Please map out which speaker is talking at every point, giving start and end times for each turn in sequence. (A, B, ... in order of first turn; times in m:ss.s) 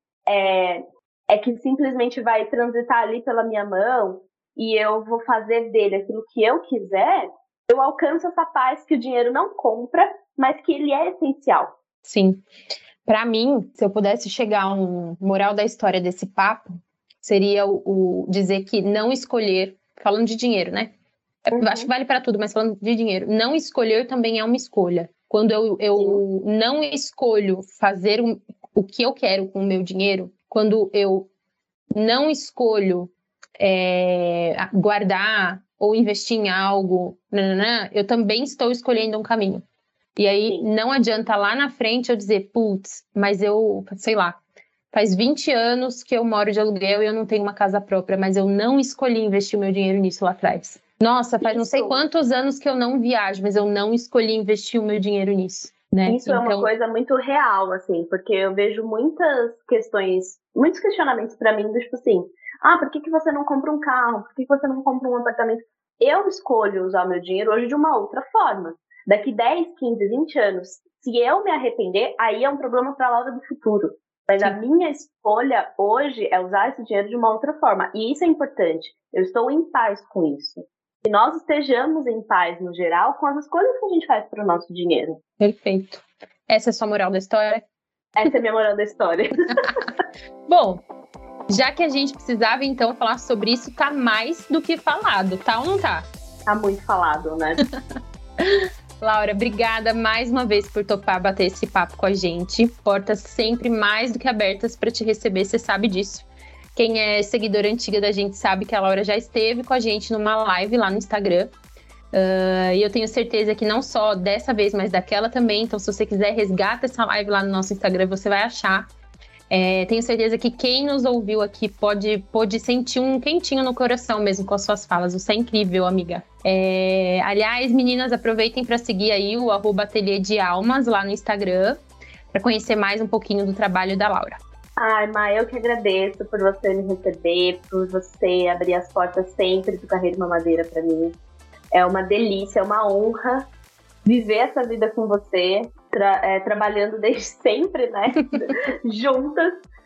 0:00.3-0:11.8 A
0:12.0-0:12.5 B
0:13.0-0:16.7 B
0:17.2-0:20.9 B
0:21.5-0:31.3 B
0:21.6-0:21.9 A
0:26.0-0:26.2 A
0:32.0-0:39.6 B
0:40.2-0:44.4 B
0:44.9-0:56.7 B
0:51.4-0:52.0 A
0:56.1-1:25.2 A
1:25.4-1:27.6 B
1:28.2-1:29.8 A
1:30.5-1:30.8 B
1:31.5-1:36.1 B
1:36.5-1:37.6 A
1:38.4-1:51.5 B
1:52.1-1:58.9 B
1:59.5-2:11.8 B
2:12.3-2:14.4 B
2:14.8-2:21.2 A
2:21.7-2:23.5 A
2:24.0-2:29.6 A